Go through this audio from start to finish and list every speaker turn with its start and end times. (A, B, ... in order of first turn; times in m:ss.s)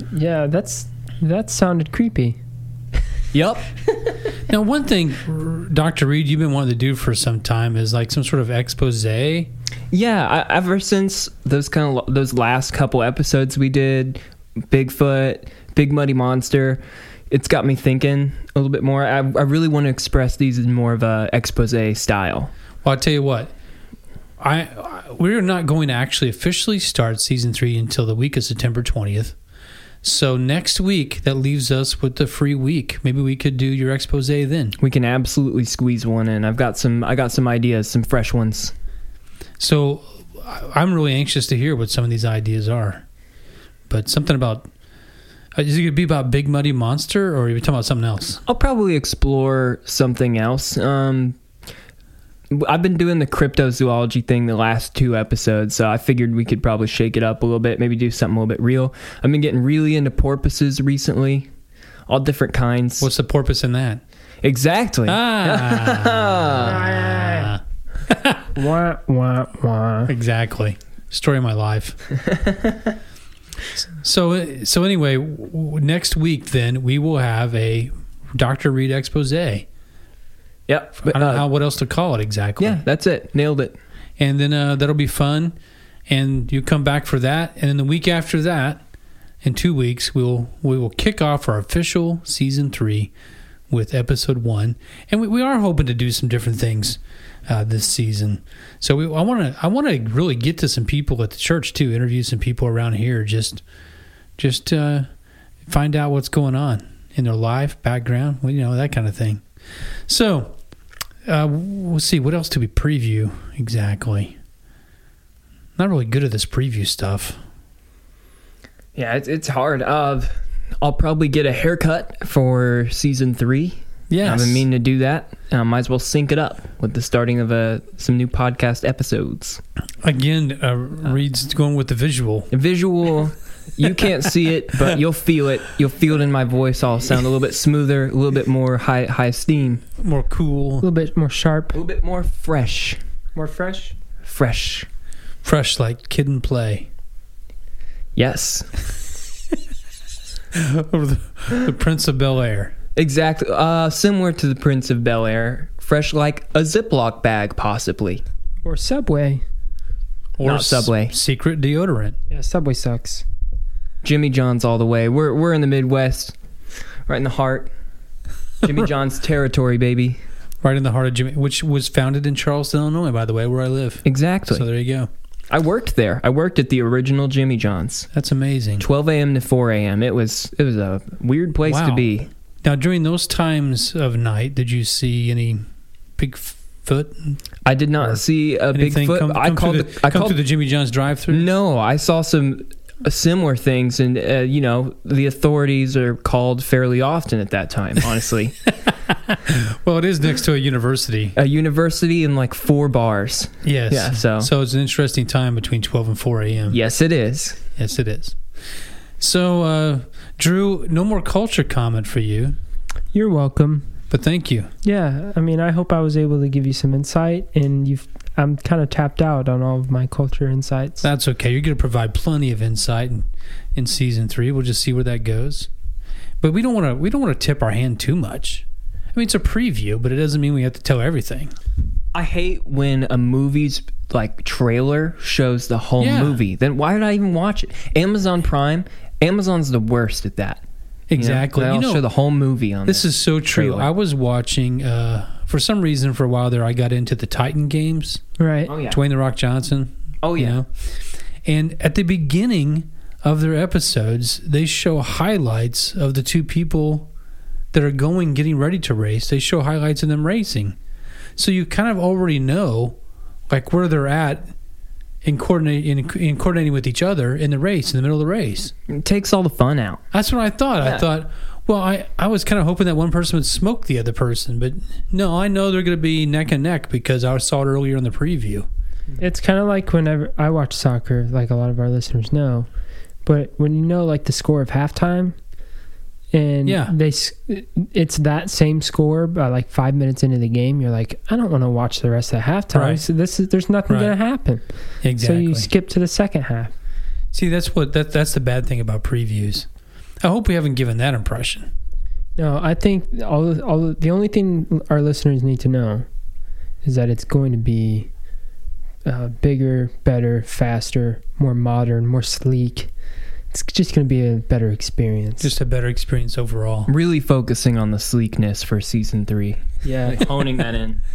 0:00.1-0:02.4 A
0:03.3-0:03.7 B
0:04.5-0:09.5 C
0:09.9-0:22.5 B
0:22.8-0:23.5 C
0:24.4-0:29.4 C
0:30.0-0:34.8 C
0:34.8-0:38.7 B
0:39.6-0:43.0 C
0:43.9-0:44.7 C
0:45.6-0:48.4 C
0:48.5-0:51.4 B
0:52.5-1:01.5 B
1:02.1-1:03.1 B
1:03.0-1:04.0 C
1:04.4-1:06.8 B
1:05.1-1:08.5 C
1:06.6-1:07.5 A
1:08.6-1:10.1 A
1:10.1-1:12.0 C
1:13.8-1:19.7 C
1:20.7-1:21.4 B
1:21.1-1:22.8 C
1:22.6-1:23.8 B
1:24.2-1:25.5 C
1:26.1-1:28.8 C
1:29.4-1:33.1 C
1:33.7-1:43.6 C
1:44.4-1:45.1 C
1:45.7-1:49.4 C
1:50.1-1:50.6 C
1:51.3-1:54.4 C
1:55.8-1:57.4 C
1:59.0-2:09.6 B
2:04.1-2:04.6 C
2:10.0-2:12.5 C
2:12.5-2:19.8 B
2:20.0-2:20.9 C
2:20.8-2:21.8 A
2:21.8-2:23.0 B
2:23.4-2:24.0 A
2:24.2-2:24.9 B
2:25.4-2:26.9 C
2:28.2-2:28.7 B
2:30.5-2:32.7 C
2:33.0-2:38.2 B
2:38.6-2:39.4 A
2:40.4-2:42.2 C
2:40.4-2:41.2 B
2:42.3-2:43.2 A
2:44.0-2:46.3 B
2:47.1-2:47.7 B
2:48.6-2:50.2 B
2:50.6-2:55.1 C
2:54.0-2:54.7 B
2:55.5-2:58.1 B
2:58.1-2:58.9 C
2:58.8-3:02.3 B
3:01.6-3:05.6 C
3:06.2-3:07.4 C
3:07.6-3:10.4 B
3:08.7-3:11.5 C
3:11.3-3:18.6 B
3:19.1-3:21.4 C
3:21.4-3:24.5 B
3:23.6-3:26.8 C
3:26.7-3:27.6 B
3:27.8-3:28.4 C
3:29.2-3:32.6 C
3:33.1-3:33.9 A
3:34.1-3:34.7 C
3:34.8-3:41.1 A
3:41.0-3:45.7 C
3:46.4-3:51.5 C
3:52.1-4:00.6 B
3:56.0-3:56.4 C
4:01.1-4:02.0 C
4:01.1-4:03.9 B
4:02.9-4:08.2 C
4:08.4-4:08.7 A
4:08.7-4:09.0 B
4:08.9-4:10.7 C
4:10.2-4:10.6 B
4:11.4-4:17.1 C
4:17.7-4:20.8 C
4:21.4-4:23.0 C
4:23.5-4:24.5 C
4:25.2-4:28.7 C
4:28.9-4:30.0 B
4:30.1-4:38.7 C
4:30.8-4:31.1 B
4:39.2-4:42.7 A
4:43.2-4:45.4 A
4:46.3-4:54.6 A
4:46.6-4:46.9 C
4:52.7-4:53.0 C
4:53.9-4:54.2 C
4:55.0-4:55.7 C
4:55.2-4:56.7 A
4:57.3-4:59.7 C
5:00.2-5:01.7 C
5:02.4-5:06.1 A
5:06.8-5:08.1 A
5:09.0-5:12.9 A
5:13.5-5:15.5 A
5:15.4-5:16.9 C
5:16.9-5:21.0 B
5:19.8-5:20.2 A